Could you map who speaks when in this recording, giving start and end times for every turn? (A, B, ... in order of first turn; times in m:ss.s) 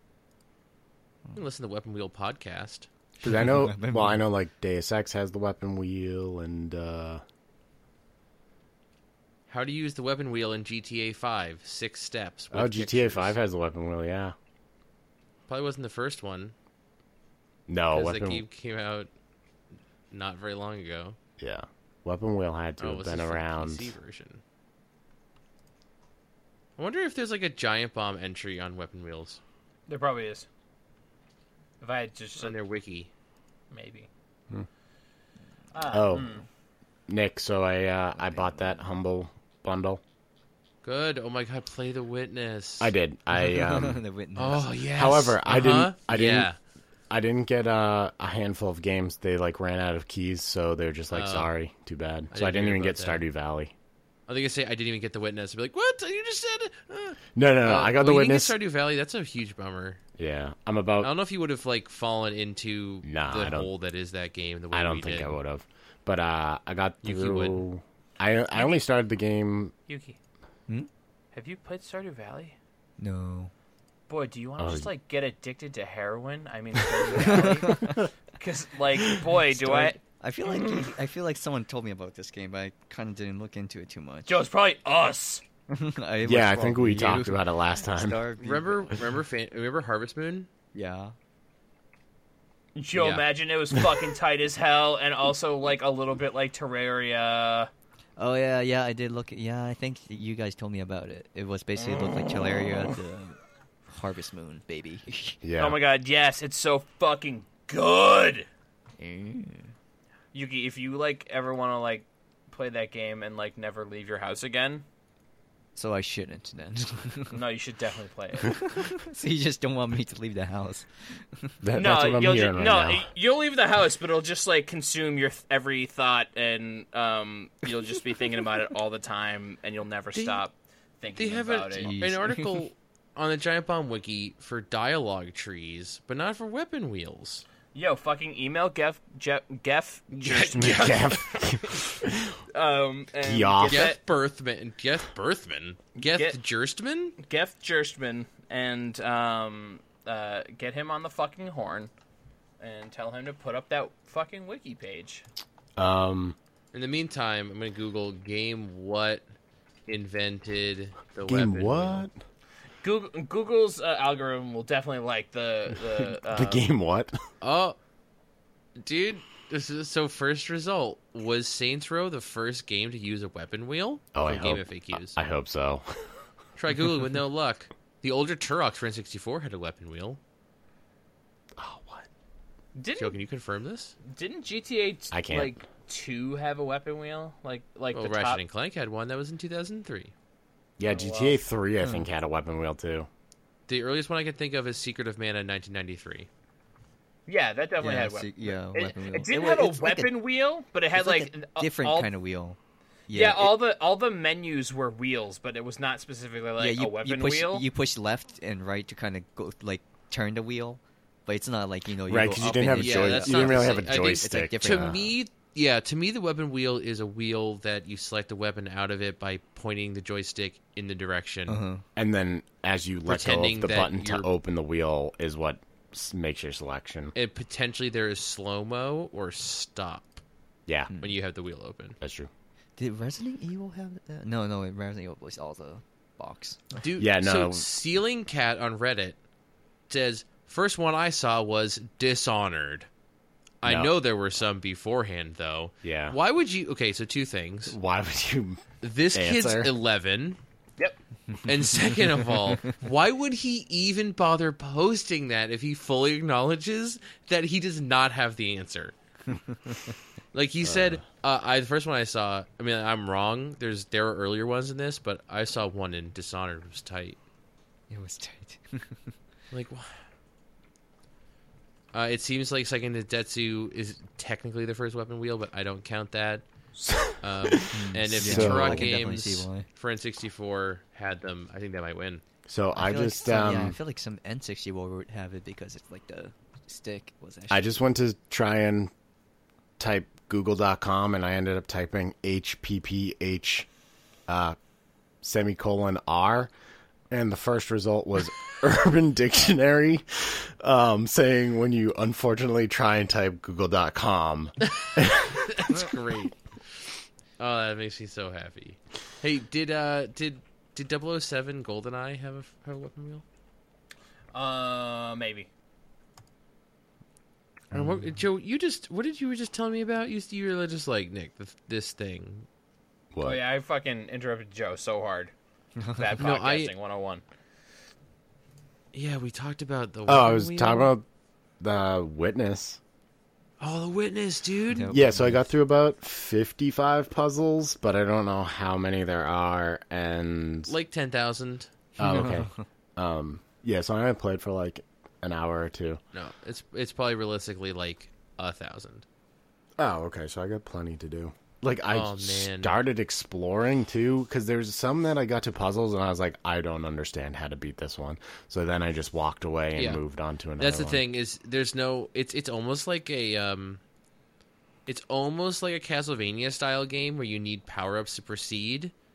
0:01.3-0:02.9 A
0:03.2-0:07.2 B
0:03.2-0:04.2 C
0:09.5-0:13.4 A
0:12.5-0:14.3 B
0:15.5-0:16.5 A
0:17.7-0:18.4 B
0:17.9-0:19.1 A
0:20.1-0:21.2 A
0:21.4-0:23.9 B
0:22.8-0:24.4 A
0:26.8-0:29.4 A
0:29.9-0:30.5 D
0:31.8-0:32.6 D
0:32.4-0:33.1 A
0:33.7-0:34.1 D
0:35.7-0:36.4 D
0:35.9-0:36.4 B
0:37.1-0:40.0 B
0:40.8-0:42.9 A
0:42.8-0:44.0 B
0:43.4-0:44.8 C
0:44.4-0:46.6 A
0:44.9-0:46.5 B
0:47.1-0:53.7 B
0:51.1-0:51.5 A
0:52.3-0:53.2 A
0:54.3-1:00.0 A
0:57.3-0:58.5 B
1:00.2-1:01.1 B
1:01.0-1:05.4 A
1:03.0-1:03.7 B
1:04.7-1:09.7 B
1:07.0-1:07.6 A
1:08.5-1:08.8 D
1:09.9-1:10.2 D
1:11.3-1:12.6 D
1:13.0-1:13.5 C
1:14.1-1:20.0 D
1:14.6-1:14.9 B
1:17.2-1:18.0 C
1:19.5-1:24.4 C
1:24.3-1:25.4 D
1:25.7-1:29.0 C
1:26.2-1:28.2 B
1:28.4-1:30.5 A
1:30.7-1:31.1 C
1:32.7-1:37.7 D
1:32.9-1:33.3 A
1:38.2-1:45.4 C
1:41.8-1:42.8 D
1:45.4-1:45.8 B
1:45.6-1:48.5 D
1:49.0-1:49.7 C
1:50.3-1:54.8 D
1:55.7-1:57.4 C
1:57.3-1:58.6 D
1:58.5-2:01.5 C
2:01.6-2:03.1 B
2:01.7-2:11.9 D
2:10.1-2:10.4 A
2:11.1-2:17.4 A
2:11.8-2:12.6 C
2:17.7-2:21.4 D
2:20.1-2:21.4 A
2:20.5-2:22.4 B
2:22.5-2:24.0 D
2:23.2-2:24.0 B
2:23.6-2:27.2 A
2:26.0-2:26.4 D
2:27.2-2:31.9 D
2:32.6-2:35.2 D
2:35.8-2:36.4 B
2:36.7-2:39.2 A
2:39.9-2:42.0 A
2:41.2-2:42.1 B
2:42.8-2:46.6 D
2:46.3-2:47.1 B
2:47.4-2:47.8 A
2:48.8-2:55.2 A
2:54.1-2:55.9 B
2:56.6-3:00.2 A
3:01.6-3:02.1 B
3:02.7-3:03.2 D
3:03.0-3:04.0 A
3:04.1-3:08.4 D
3:05.1-3:05.6 B
3:07.9-3:10.1 A
3:10.8-3:13.1 B
3:10.9-3:11.4 D
3:11.8-3:12.1 C
3:13.7-3:16.3 A
3:17.3-3:22.1 D
3:17.8-3:20.2 C
3:20.9-3:23.6 C
3:23.1-3:27.6 D
3:26.6-3:35.0 C
3:32.1-3:35.0 B
3:32.8-3:41.6 A
3:41.5-3:41.8 C
3:42.0-3:47.1 B
3:43.0-3:44.3 A
3:47.1-3:50.2 A
3:50.7-3:50.9 B
3:51.0-3:52.0 A
3:52.0-3:52.3 B
3:52.8-3:56.8 C
3:56.8-3:59.2 A
3:57.0-3:57.6 B
3:59.9-4:02.9 A
4:03.6-4:07.8 A
4:03.6-4:03.9 B
4:05.8-4:06.2 B
4:07.7-4:09.7 B
4:08.8-4:10.4 A
4:11.4-4:18.9 A
4:20.3-4:27.2 A
4:20.6-4:21.0 B
4:27.9-4:29.1 C
4:29.5-4:30.0 A
4:31.9-4:36.4 A
4:36.9-4:37.6 B
4:37.1-4:42.2 A
4:37.7-4:39.7 C
4:38.2-4:38.9 B
4:42.5-4:43.8 B
4:42.7-4:47.7 C
4:47.5-4:48.9 B
4:49.8-4:53.7 B
4:54.3-4:54.6 B
4:55.2-4:56.5 B
4:57.1-5:05.9 B
5:04.6-5:06.4 A
5:07.4-5:13.2 A
5:14.3-5:15.5 D
5:17.7-5:22.5 A
5:17.7-5:18.1 B
5:23.1-5:23.4 B
5:23.2-5:25.3 D
5:25.8-5:26.1 C
5:26.0-5:27.2 D
5:26.2-5:26.7 A
5:28.9-5:30.9 A
5:30.1-5:31.0 B
5:31.6-5:32.8 B
5:33.6-5:34.9 A
5:34.7-5:35.4 C
5:34.9-5:40.7 B
5:40.7-5:41.7 A
5:42.0-5:46.0 B
5:42.0-5:42.5 C
5:46.1-5:49.0 A
5:49.8-6:01.0 B
5:51.9-5:52.8 A
5:59.8-6:00.0 A
6:00.6-6:03.8 A
6:04.9-6:08.9 A